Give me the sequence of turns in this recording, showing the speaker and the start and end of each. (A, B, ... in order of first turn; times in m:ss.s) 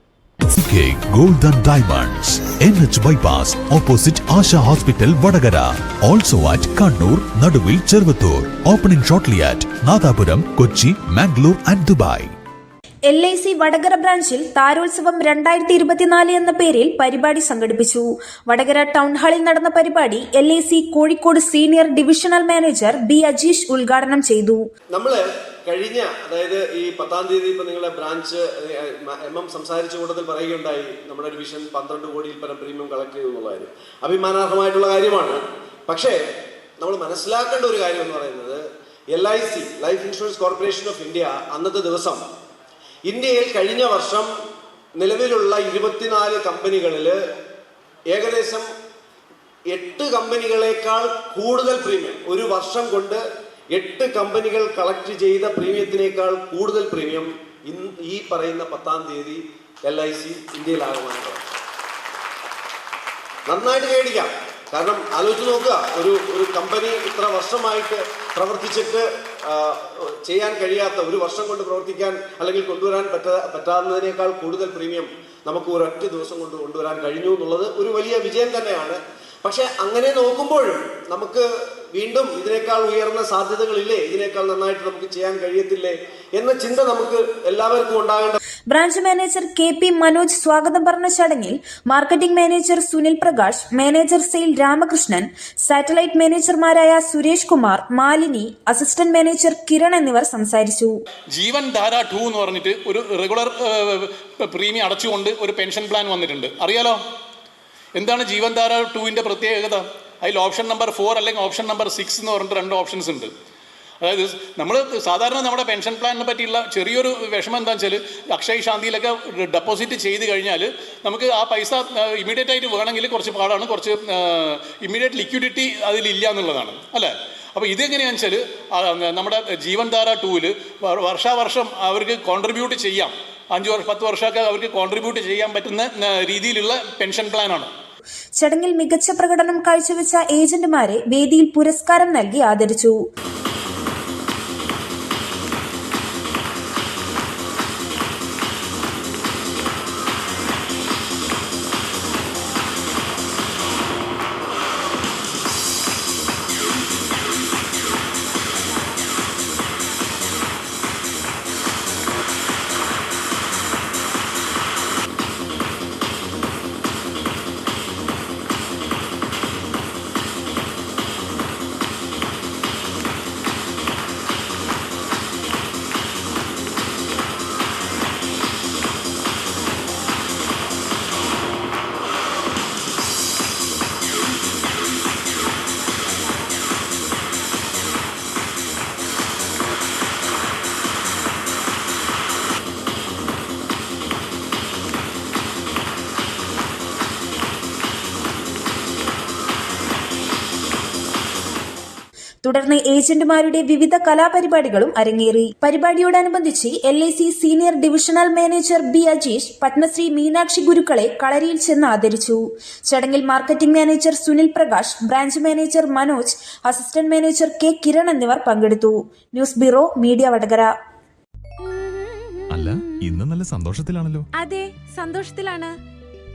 0:00.4-0:12.3 A
0:13.1-0:24.6 B
0:24.9-0:36.2 C
0:36.8-0:42.2 C
0:43.0-0:44.3 C
0:45.0-0:47.2 C
0:48.1-0:48.7 C
0:49.7-0:53.2 C
0:53.7-1:01.5 C
1:03.5-1:28.4 C
1:28.7-1:40.9 B
1:41.3-1:47.0 D
1:47.9-1:53.3 D
1:54.0-2:17.7 D
2:18.4-2:23.0 B
3:22.4-3:40.7 B
3:41.6-3:43.2 E
3:42.5-3:44.3 A
3:44.4-3:45.7 E